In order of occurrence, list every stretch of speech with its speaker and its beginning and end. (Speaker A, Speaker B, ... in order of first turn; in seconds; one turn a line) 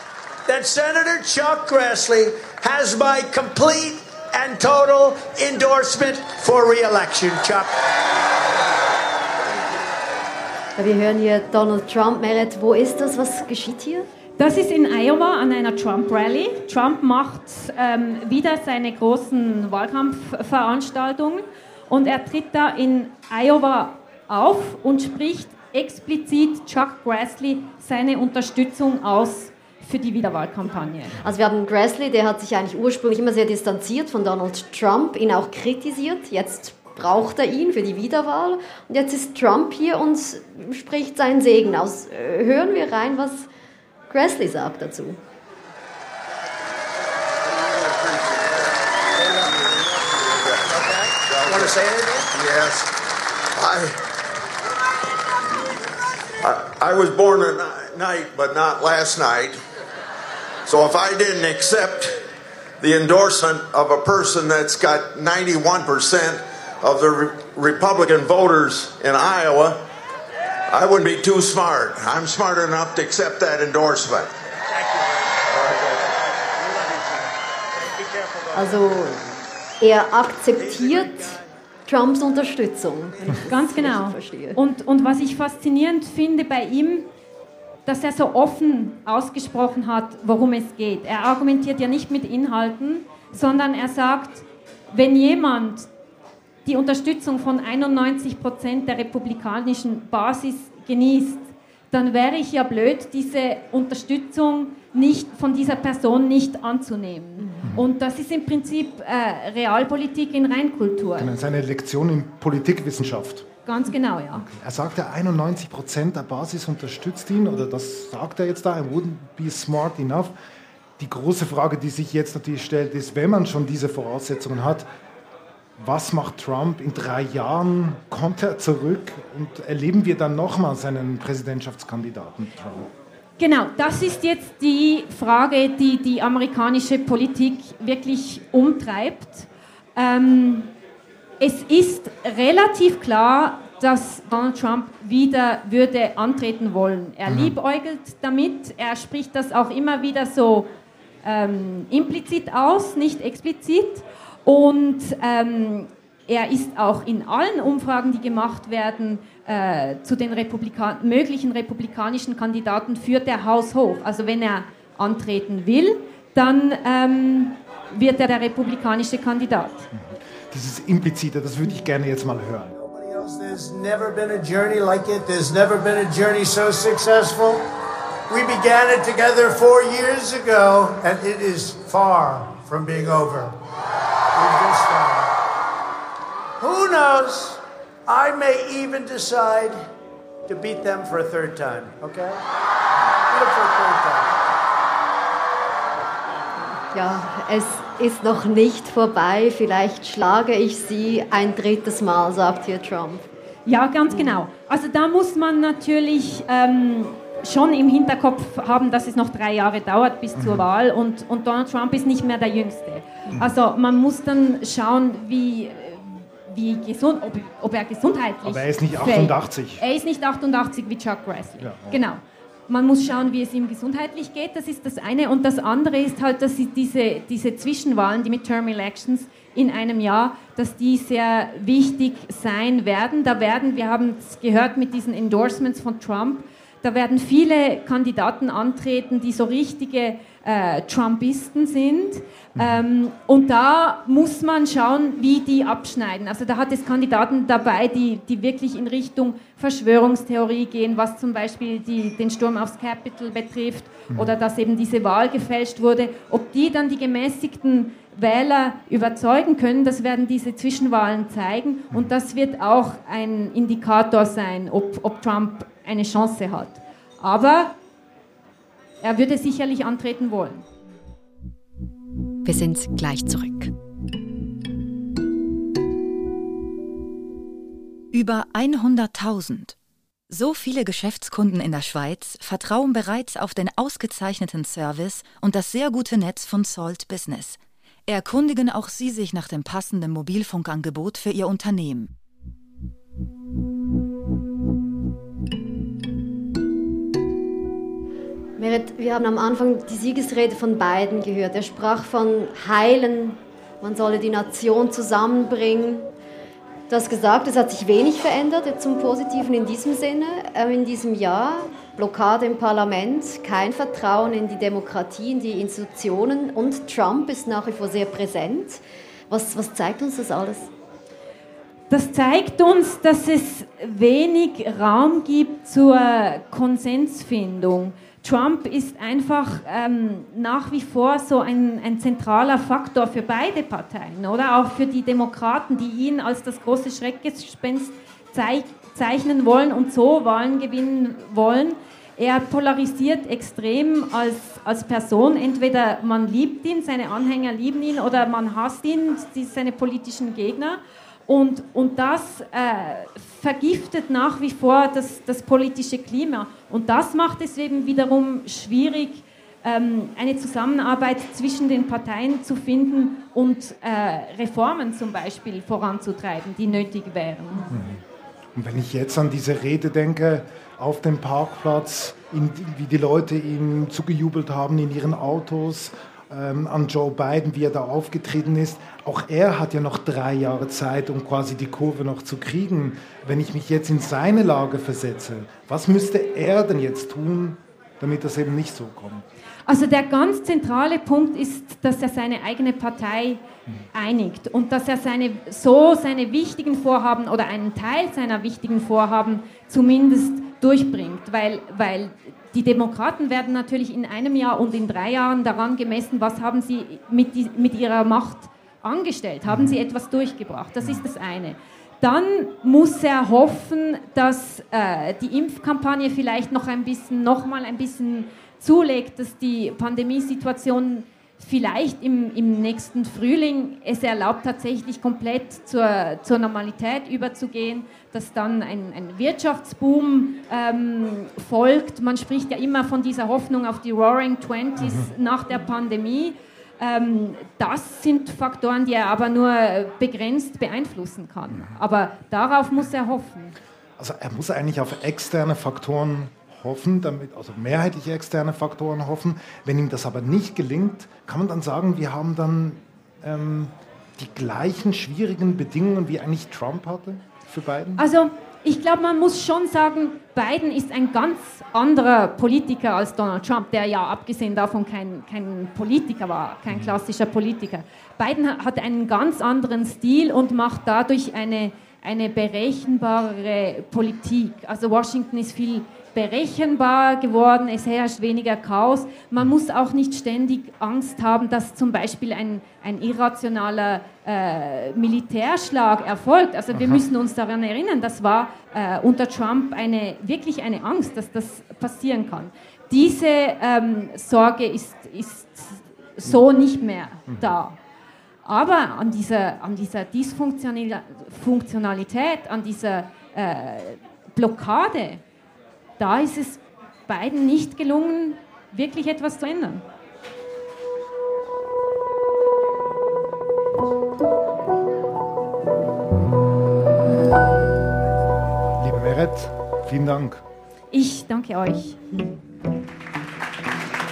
Speaker A: 0.5-7.7
Speaker B: 10.8-14.1
Speaker C: 14.4-31.2
Speaker B: 31.2-43.5
Speaker B: 44.1-45.2
Speaker D: 47.6-48.7
Speaker D: 49.2-52.9
Speaker A: 50.7-52.3
Speaker D: 53.5-54.0
Speaker D: 56.4-59.6
Speaker D: 60.6-62.2
Speaker D: 62.8-69.8
Speaker D: 70.7-74.3
Speaker A: 74.7-75.3
Speaker D: 75.5-76.0
Speaker A: 76.6-77.2
Speaker A: 78.0-78.5
Speaker B: 78.5-79.3
Speaker B: 79.8-81.3
Speaker A: 80.8-81.4
Speaker B: 81.8-84.6
Speaker C: 83.5-87.1
Speaker C: 87.8-95.9
Speaker C: 96.7-111.3
Speaker B: 107.4-107.7
Speaker E: 111.2-113.5
Speaker C: 113.7-114.5
Speaker E: 114.3-120.3
Speaker E: 121.0-124.8
Speaker E: 125.8-132.9
Speaker C: 133.4-140.7
Speaker C: 141.4-150.7
Speaker E: 147.3-147.5
Speaker C: 151.2-169.9
Speaker E: 169.9-172.7
Speaker A: 172.7-177.6
Speaker A: 178.3-183.6
Speaker A: 184.3-185.3
Speaker A: 186.6-189.8
Speaker A: 190.5-192.4
Speaker A: 193.3-194.3
Speaker B: 196.9-203.3
Speaker C: 203.7-267.7
Speaker E: 210.4-210.6
Speaker E: 218.4-219.8
Speaker E: 221.6-222.0
Speaker E: 242.6-242.8
Speaker C: 269.0-270.6
Speaker F: 272.4-273.7
Speaker F: 278.1-279.8
Speaker F: 280.3-292.1
Speaker B: 298.6-306.1
Speaker B: 306.9-320.7
Speaker C: 321.9-367.8
Speaker E: 367.7-368.0
Speaker E: 368.5-389.2
Speaker C: 389.6-393.4
Speaker C: 393.9-443.6
Speaker E: 434.8-435.1
Speaker E: 444.0-458.1
Speaker C: 458.0-497.8
Speaker E: 486.7-487.0
Speaker C: 498.4-505.2
Speaker C: 506.0-509.8
Speaker E: 518.8-520.4
Speaker C: 520.9-522.0